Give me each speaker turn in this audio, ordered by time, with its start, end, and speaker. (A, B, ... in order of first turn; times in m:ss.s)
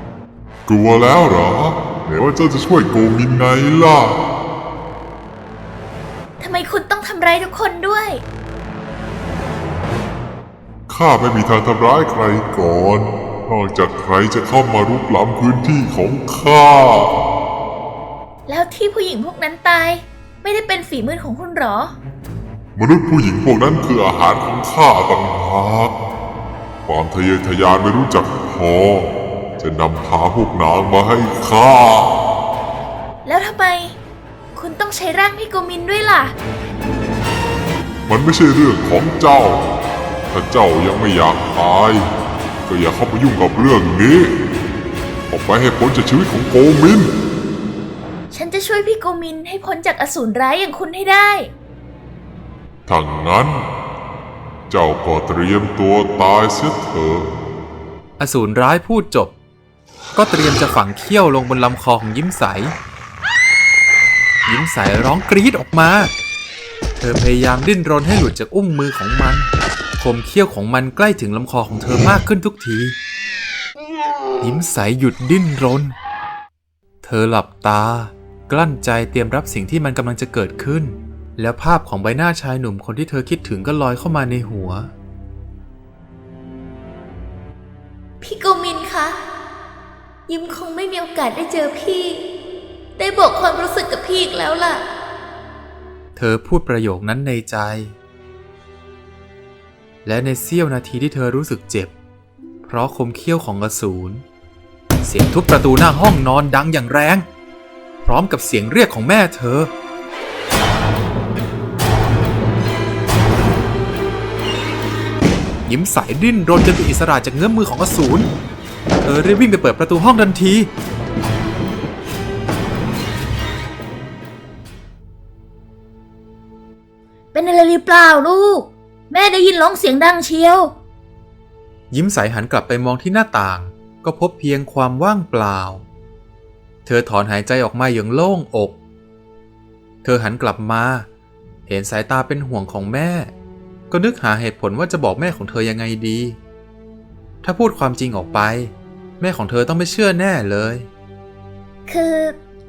0:00.7-0:04.2 A
0:06.4-0:08.2 B
0:10.9-0:17.1 A
0:18.5-0:22.0 B
0:22.8-0:25.9 A
0:26.9-0:32.2 A
0:33.2-0:34.0 B
0:34.6-0:36.4 B
0:38.1-0:39.6 A
0:40.3-0:42.1 A
0:42.7-0:44.3 A
0:45.3-0:47.1 A
0:48.3-0:51.5 B
0:52.9-0:53.7 A
0:54.7-0:57.4 A
0:58.2-0:59.3 C
1:00.2-1:02.7 C
1:04.5-1:06.1 C
1:07.0-1:09.5 C
1:10.0-1:13.0 C
1:14.4-1:15.9 C
1:17.0-1:24.9 C
1:28.2-1:29.2 B
1:30.3-1:32.3 B
1:33.0-1:34.8 B
1:36.2-1:37.9 C
1:40.0-1:41.9 C
1:42.6-1:44.2 C
1:45.0-1:47.2 C
1:48.0-1:49.7 C
1:55.7-1:58.3 C
1:59.0-2:00.7 C
2:07.3-2:10.7 B
2:11.9-2:15.8 C
2:16.8-2:18.8 C
2:20.0-2:21.1 C
2:21.7-2:23.3 C
2:23.9-2:26.4 C
2:27.4-2:30.9 C
2:31.9-2:32.4 B